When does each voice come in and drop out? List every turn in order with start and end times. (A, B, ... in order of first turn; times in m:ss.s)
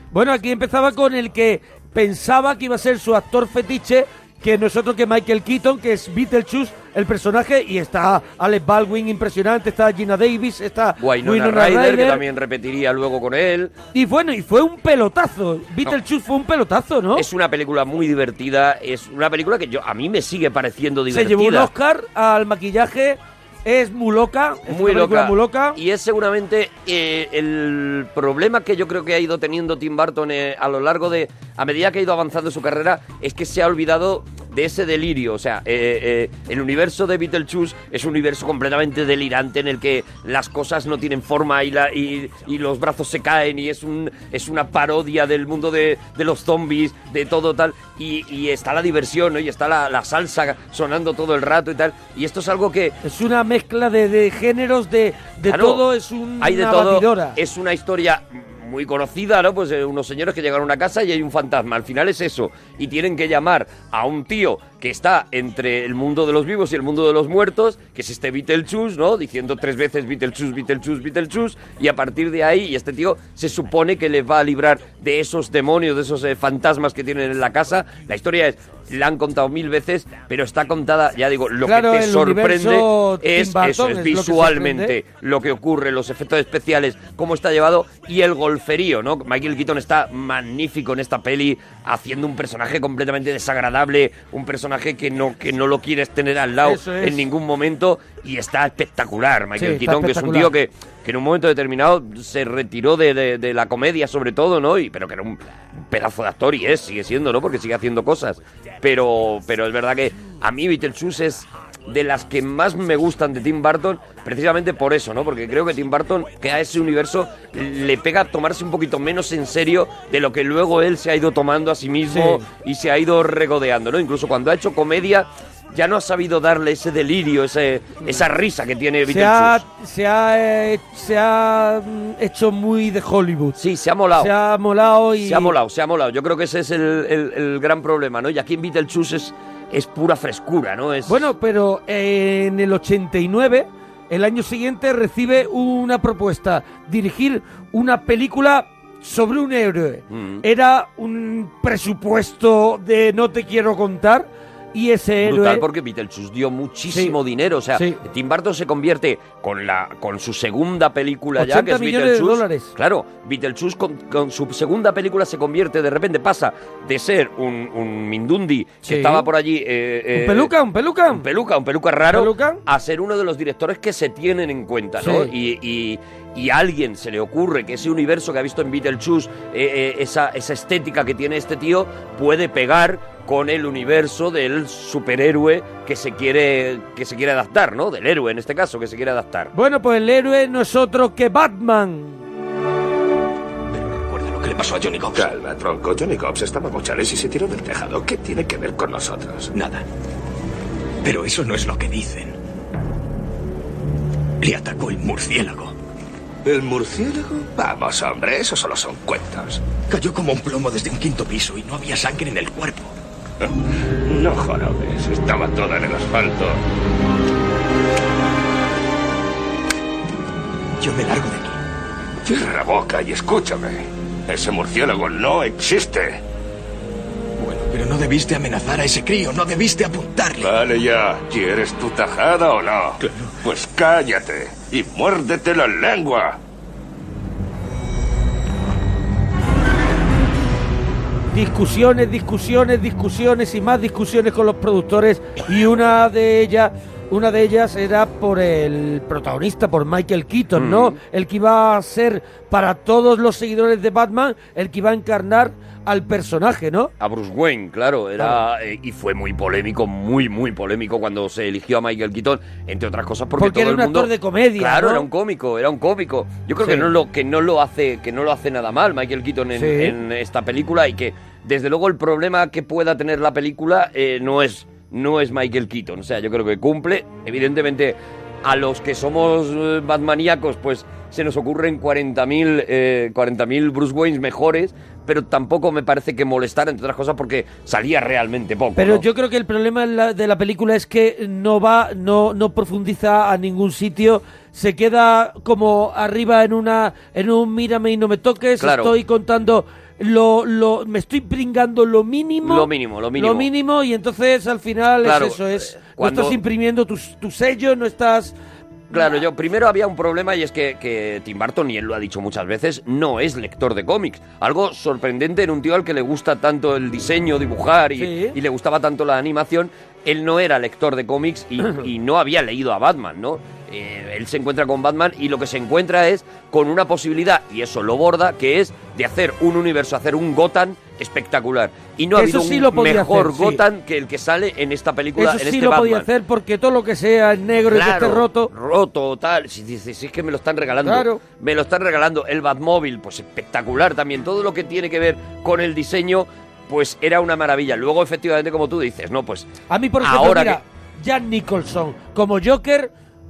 0:00.1-0:12.2 A
0:11.0-0:13.7 B
0:13.9-0:17.3 A
0:17.1-0:21.7 B
0:21.1-0:25.8 A
0:24.7-0:53.0 B
0:53.0-0:57.4 A
0:55.5-0:55.8 B
0:56.4-2:09.6 B
1:21.6-1:25.0 A
1:36.6-1:37.2 A
1:39.6-1:40.5 A
2:02.1-2:02.4 A
2:09.1-2:13.6 A
2:13.6-2:14.3 B
2:14.2-2:15.6 A
2:15.2-2:21.3 B
2:21.1-2:35.6 A
2:30.1-2:30.4 B
2:35.2-2:50.5 B
2:36.9-2:37.2 A
2:37.7-2:38.0 A
2:41.4-2:42.7 A
2:48.8-2:49.3 A
2:50.1-2:51.2 A
2:51.1-3:09.5 B
2:52.0-2:52.6 A
2:55.0-2:55.3 A
3:09.5-3:12.2 A
3:13.7-3:15.3 C
3:15.1-3:19.5 D
3:19.5-3:19.8 C
3:21.0-3:22.4 C
3:24.4-3:25.7 C
3:26.5-3:29.6 D
3:29.9-3:32.9 C
3:34.0-3:36.6 D
3:40.8-3:41.6 C
3:42.2-3:46.2 D
3:47.4-3:50.5 C
3:50.4-3:56.4 D
4:01.3-4:16.9 A
4:10.5-4:11.0 B
4:17.0-4:49.0 B
4:23.4-4:25.1 A
4:26.6-4:26.9 A
4:29.5-4:29.9 A
4:48.8-5:08.3 A
4:58.6-4:58.9 B
5:02.4-5:03.5 B
5:05.0-5:06.4 B
5:08.9-5:09.2 A
5:08.9-5:36.1 B
5:18.0-5:18.4 A
5:32.2-5:33.6 A
5:35.2-5:38.5 A
5:37.7-5:49.5 B
5:40.8-5:41.2 A
5:49.7-5:52.9 A
5:50.0-5:50.6 B